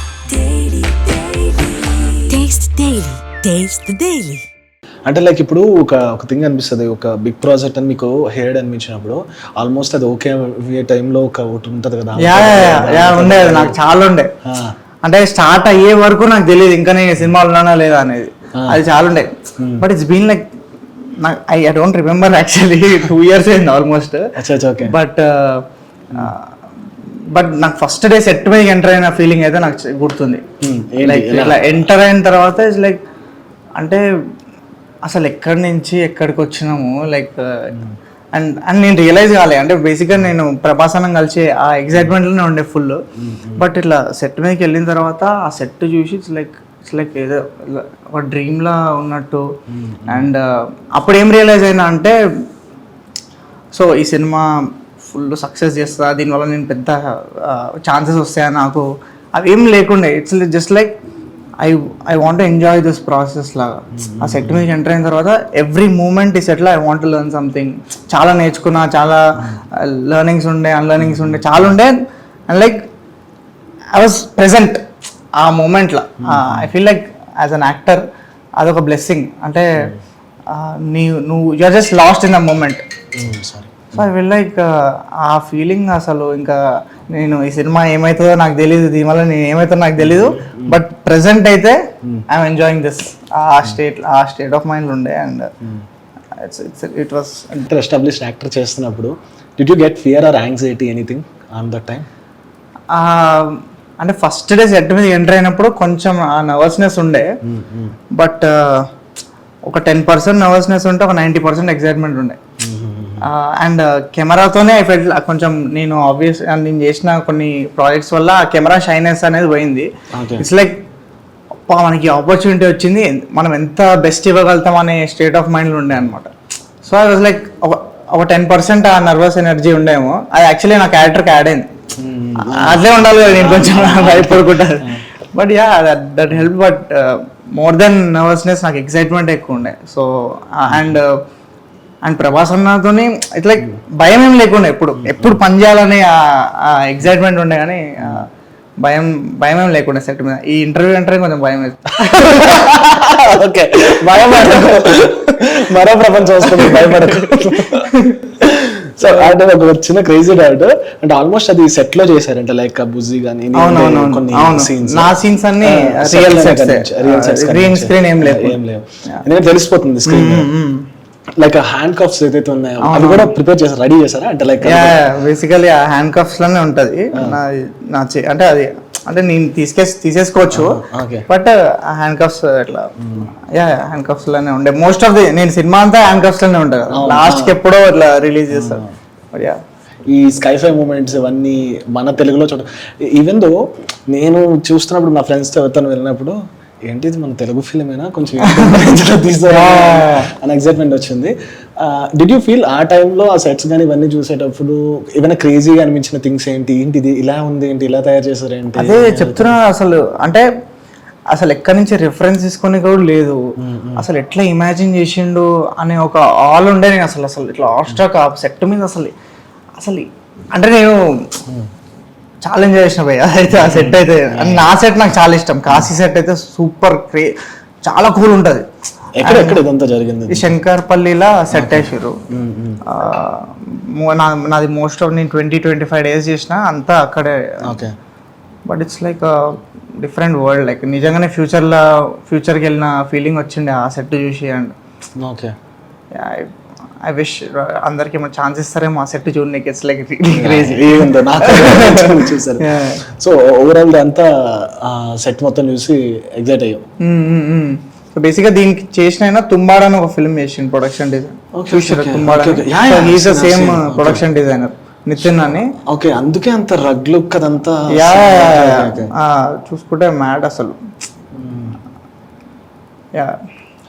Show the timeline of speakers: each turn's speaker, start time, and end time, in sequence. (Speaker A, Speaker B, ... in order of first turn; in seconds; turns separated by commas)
Speaker A: 0.3-4.4, Speaker B: 5.1-13.8, Speaker C: 12.2-14.3, Speaker B: 14.4-14.7, Speaker C: 15.0-20.5, Speaker B: 19.6-19.9, Speaker C: 21.2-24.2, Speaker B: 24.4-24.9, Speaker C: 24.8-25.6, Speaker C: 26.1-26.4, Speaker C: 27.3-30.4, Speaker B: 30.6-31.7, Speaker C: 31.0-33.0, Speaker C: 35.1-37.7, Speaker C: 38.4-43.0, Speaker B: 43.2-43.7, Speaker C: 43.6-49.5, Speaker B: 49.7-50.3, Speaker C: 50.1-50.4, Speaker C: 51.0-52.1, Speaker C: 53.7-54.5, Speaker C: 55.0-60.9, Speaker C: 61.6-71.9, Speaker B: 64.0-64.7, Speaker B: 71.0-71.8, Speaker C: 72.5-72.8, Speaker C: 73.9-74.8, Speaker C: 75.4-78.0, Speaker B: 76.2-76.7, Speaker C: 78.6-79.9, Speaker C: 80.5-82.8, Speaker B: 83.2-84.1, Speaker C: 83.9-86.6, Speaker C: 87.1-91.8, Speaker B: 90.0-90.8, Speaker C: 92.3-95.5, Speaker C: 96.4-97.7, Speaker B: 97.7-102.1, Speaker C: 102.9-107.3, Speaker B: 107.5-108.0, Speaker C: 108.2-108.8, Speaker C: 109.7-112.4, Speaker B: 112.6-113.3, Speaker C: 113.2-120.8, Speaker B: 120.1-120.5, Speaker C: 121.7-126.3, Speaker C: 126.8-131.7, Speaker B: 132.0-135.0, Speaker C: 132.5-141.1, Speaker B: 140.7-141.0, Speaker C: 142.1-148.2, Speaker B: 145.0-145.4, Speaker C: 148.8-152.9, Speaker B: 152.1-170.5, Speaker C: 153.9-155.3, Speaker C: 156.2-158.3, Speaker C: 159.0-159.3, Speaker C: 163.6-168.6, Speaker C: 170.1-170.9, Speaker B: 171.4-175.0, Speaker C: 172.8-173.3, Speaker C: 174.6-182.9, Speaker B: 180.5-181.3, Speaker B: 183.0-183.3, Speaker C: 183.5-188.8, Speaker B: 186.9-187.6, Speaker B: 188.5-188.9, Speaker C: 189.3-189.6, Speaker B: 190.1-193.6, Speaker B: 194.1-196.4, Speaker B: 196.9-209.6, Speaker C: 198.4-198.8, Speaker C: 199.5-200.3, Speaker C: 208.8-210.4, Speaker C: 211.3-213.4, Speaker B: 213.6-214.1, Speaker C: 214.0-219.1, Speaker C: 219.8-221.0, Speaker C: 222.4-227.3, Speaker B: 223.5-224.7, Speaker C: 227.8-228.6, Speaker B: 229.2-230.5, Speaker C: 229.2-229.6, Speaker C: 230.3-232.2, Speaker B: 231.5-232.8, Speaker C: 232.9-237.8, Speaker B: 237.7-237.9, Speaker C: 238.7-239.3, Speaker C: 240.0-244.7, Speaker B: 245.2-245.6, Speaker C: 246.1-246.5, Speaker C: 247.0-253.0, Speaker B: 250.3-256.8, Speaker C: 257.0-265.7, Speaker B: 261.6-264.2, Speaker B: 265.2-269.1, Speaker C: 268.0-270.8, Speaker B: 271.4-271.8